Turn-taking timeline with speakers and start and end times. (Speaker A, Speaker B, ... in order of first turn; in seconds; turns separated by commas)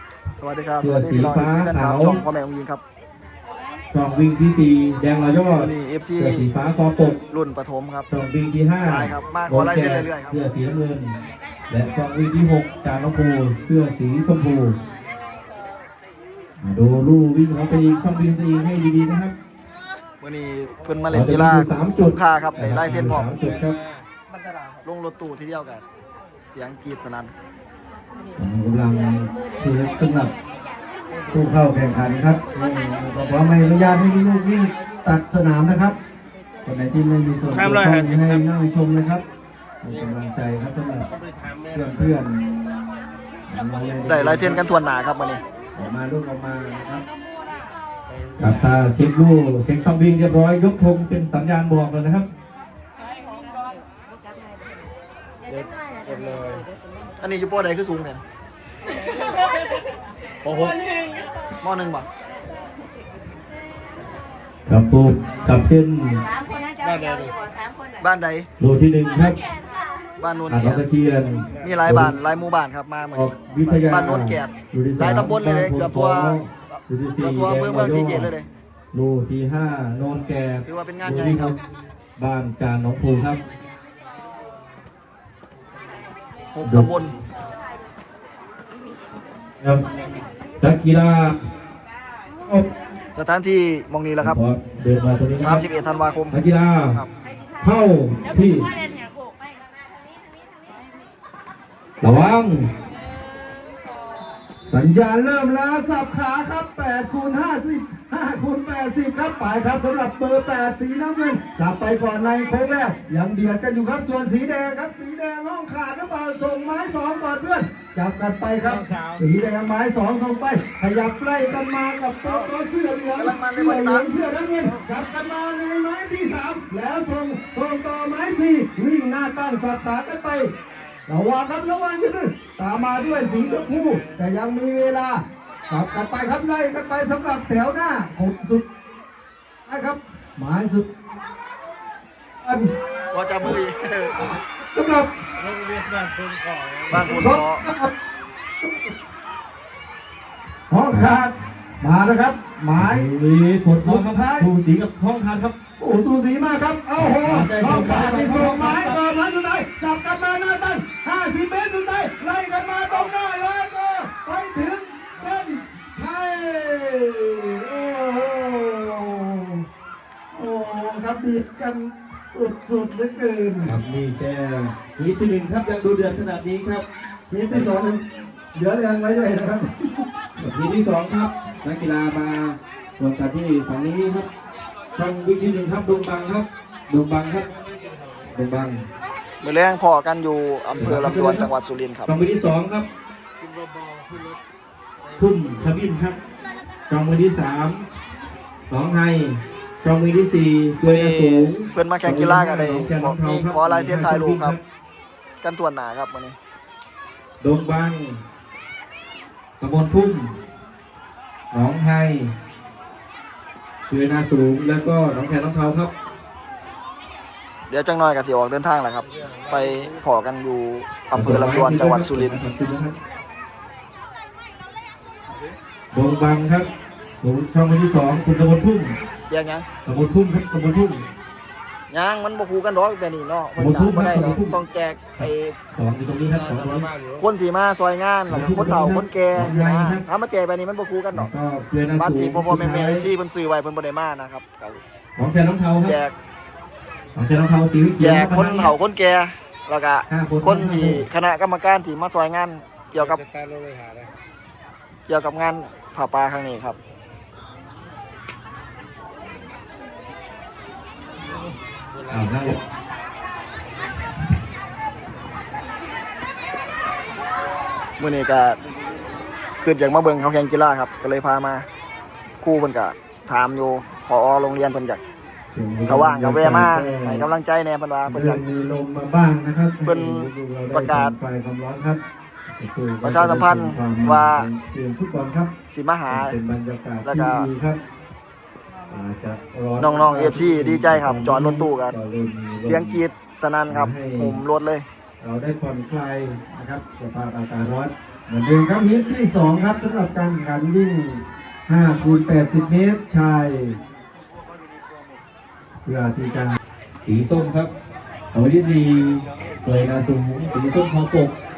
Speaker A: 0.4-2.8, Speaker B: 0.8-2.2, Speaker B: 3.9-7.2, Speaker A: 5.6-6.5, Speaker A: 7.3-8.1, Speaker B: 8.1-11.2, Speaker A: 8.8-10.4, Speaker B: 11.7-14.8, Speaker B: 16.6-19.4, Speaker A: 20.2-23.6, Speaker B: 21.1-23.8, Speaker A: 24.9-25.8, Speaker A: 26.5-27.3, Speaker C: 28.4-30.3, Speaker C: 31.3-36.0, Speaker C: 36.6-39.2, Speaker D: 37.7-38.1, Speaker C: 39.8-41.1, Speaker C: 41.7-44.6, Speaker A: 44.0-45.4, Speaker C: 45.8-47.1, Speaker B: 48.4-52.3, Speaker D: 56.1-56.6, Speaker A: 57.2-58.2, Speaker A: 61.6-62.1, Speaker B: 64.7-66.2, Speaker D: 66.8-67.3, Speaker A: 68.0-68.5, Speaker B: 68.6-69.4, Speaker A: 70.2-70.8, Speaker B: 70.5-72.1, Speaker A: 71.6-78.5, Speaker B: 73.1-78.3, Speaker B: 78.9-81.6, Speaker A: 80.7-81.6, Speaker B: 82.2-83.4, Speaker A: 86.5-87.1, Speaker B: 86.6-87.1, Speaker B: 90.6-91.4, Speaker A: 93.2-94.4, Speaker B: 94.2-95.6, Speaker A: 95.4-96.4, Speaker B: 96.3-97.0, Speaker B: 97.6-98.7, Speaker B: 102.0-102.7, Speaker C: 104.6-130.5, Speaker A: 122.2-122.5, Speaker A: 123.2-124.1, Speaker C: 131.1-138.7, Speaker C: 139.7-140.9, Speaker C: 142.4-142.7, Speaker A: 143.1-144.2, Speaker C: 144.2-145.1, Speaker D: 145.5-146.8, Speaker A: 146.9-147.7, Speaker C: 147.1-147.9, Speaker C: 148.6-148.9, Speaker C: 150.7-153.1, Speaker B: 150.9-151.2, Speaker B: 152.8-155.6, Speaker C: 153.8-154.5, Speaker C: 155.8-169.6, Speaker B: 157.0-159.0, Speaker C: 170.3-173.7, Speaker B: 173.7-176.9, Speaker C: 177.3-178.0, Speaker C: 178.6-180.0, Speaker B: 180.4-184.3, Speaker B: 185.0-187.5, Speaker B: 188.3-188.9, Speaker A: 189.4-192.1, Speaker B: 190.8-191.5, Speaker B: 192.1-192.9, Speaker B: 195.2-196.2, Speaker B: 196.9-197.9, Speaker B: 198.7-204.6, Speaker A: 200.8-204.6, Speaker A: 205.4-206.4, Speaker B: 207.4-208.2, Speaker B: 209.6-210.3, Speaker B: 211.5-212.3, Speaker B: 213.9-215.9, Speaker A: 217.7-222.4, Speaker B: 221.1-223.0, Speaker B: 225.9-226.7, Speaker B: 227.2-229.0, Speaker A: 229.3-229.7, Speaker B: 229.9-231.1, Speaker A: 231.9-235.6, Speaker B: 233.6-234.5, Speaker B: 235.2-236.9, Speaker A: 237.2-241.3, Speaker B: 238.3-240.0, Speaker B: 241.1-243.1, Speaker A: 242.0-244.8, Speaker B: 245.2-246.0, Speaker A: 245.8-246.2, Speaker B: 247.2-248.8, Speaker A: 248.0-253.2, Speaker B: 250.1-251.0, Speaker D: 253.4-254.1, Speaker A: 255.1-256.8, Speaker B: 262.1-262.6, Speaker A: 268.0-268.6, Speaker A: 269.6-271.6, Speaker A: 272.4-275.0, Speaker C: 275.5-277.3, Speaker A: 275.8-278.4, Speaker C: 278.1-285.5, Speaker A: 279.8-281.1, Speaker A: 283.0-284.5, Speaker A: 285.7-286.4, Speaker C: 286.1-287.8, Speaker A: 287.0-287.5, Speaker C: 288.9-293.0, Speaker A: 289.8-291.9, Speaker A: 292.6-294.9, Speaker C: 293.7-294.4, Speaker C: 295.2-303.8, Speaker C: 305.9-306.6, Speaker B: 307.1-307.7, Speaker B: 308.3-311.4